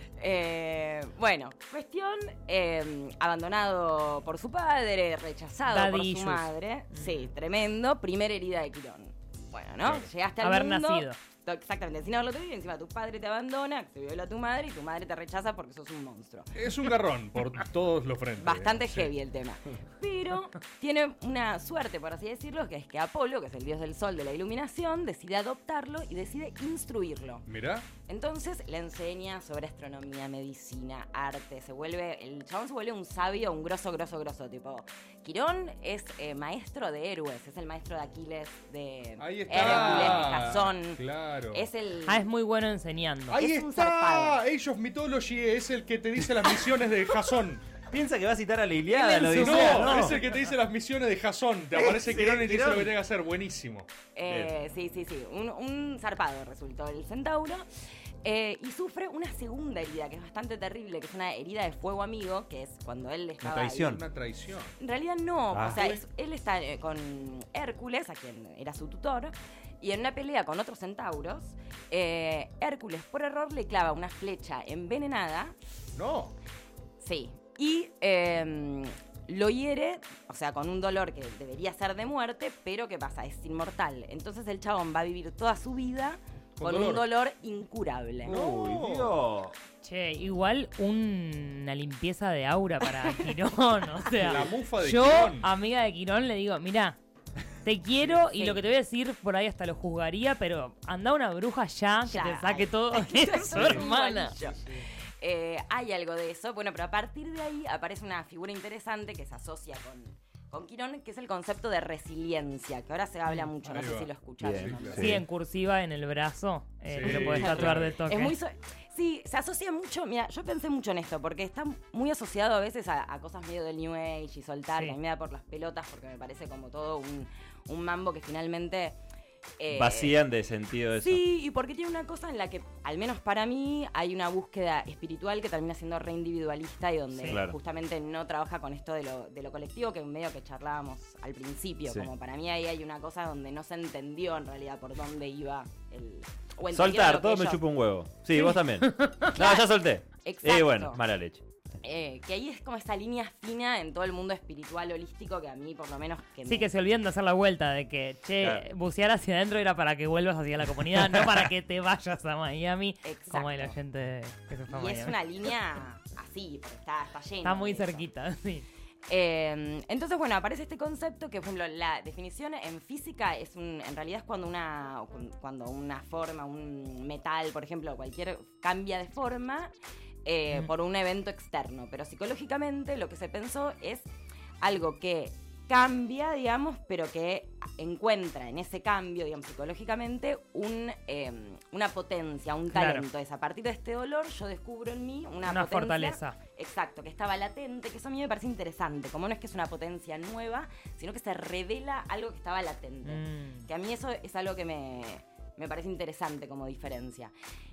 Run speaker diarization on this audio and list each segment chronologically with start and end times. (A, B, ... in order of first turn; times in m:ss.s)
0:00.2-0:16.5 A
0:05.7-0:07.1 B
0:09.8-0:10.1 C
0:10.4-0:11.2 B
0:16.5-0:19.1 C
0:18.4-0:27.5 A
0:27.5-0:27.9 C
0:28.0-0:42.3 A
0:39.2-0:41.7 C
0:39.6-0:40.3 D
0:42.0-0:43.4 B
0:43.3-0:44.4 A
0:43.3-0:47.7 C
0:47.9-0:50.2 D
0:48.9-0:50.1 B
0:49.4-0:53.9 C
0:51.7-0:52.9 D
0:54.1-0:57.6 A
0:54.2-0:54.5 D
0:58.2-1:04.0 A
1:03.4-1:04.0 D
1:03.8-1:04.7 C
1:04.8-1:15.5 A
1:05.5-1:05.9 D
1:05.6-1:06.0 C
1:15.9-1:16.4 C
1:17.0-1:28.4 A
1:26.6-1:27.0 C
1:28.2-1:29.2 C
1:28.2-1:29.5 D
1:29.8-1:37.0 B
1:33.0-1:33.4 A
1:34.2-1:35.5 C
1:37.6-1:44.4 B
1:38.0-1:38.6 A
1:42.1-1:55.1 A
1:43.5-1:43.8 C
1:53.6-1:55.1 C
1:54.4-1:55.2 D
1:55.0-1:58.3 B
1:56.9-1:57.9 C
1:57.0-2:09.0 A
2:09.6-2:10.1 A
2:09.7-2:11.2 D
2:11.0-2:27.6 A
2:17.1-2:17.4 B
2:17.2-2:17.6 D
2:26.7-2:31.4 D
2:28.8-2:29.3 B
2:29.3-2:29.7 A
2:30.2-2:31.0 A
2:31.8-2:36.7 A
2:36.4-2:45.1 B
2:38.4-2:38.6 D
2:43.0-2:43.8 A
2:44.7-2:48.0 A
2:47.4-2:48.6 B
2:49.1-2:59.7 A
3:00.2-3:04.1 A
3:04.6-3:27.3 A
3:12.7-3:13.0 B
3:15.4-3:16.4 B
3:23.0-3:23.7 B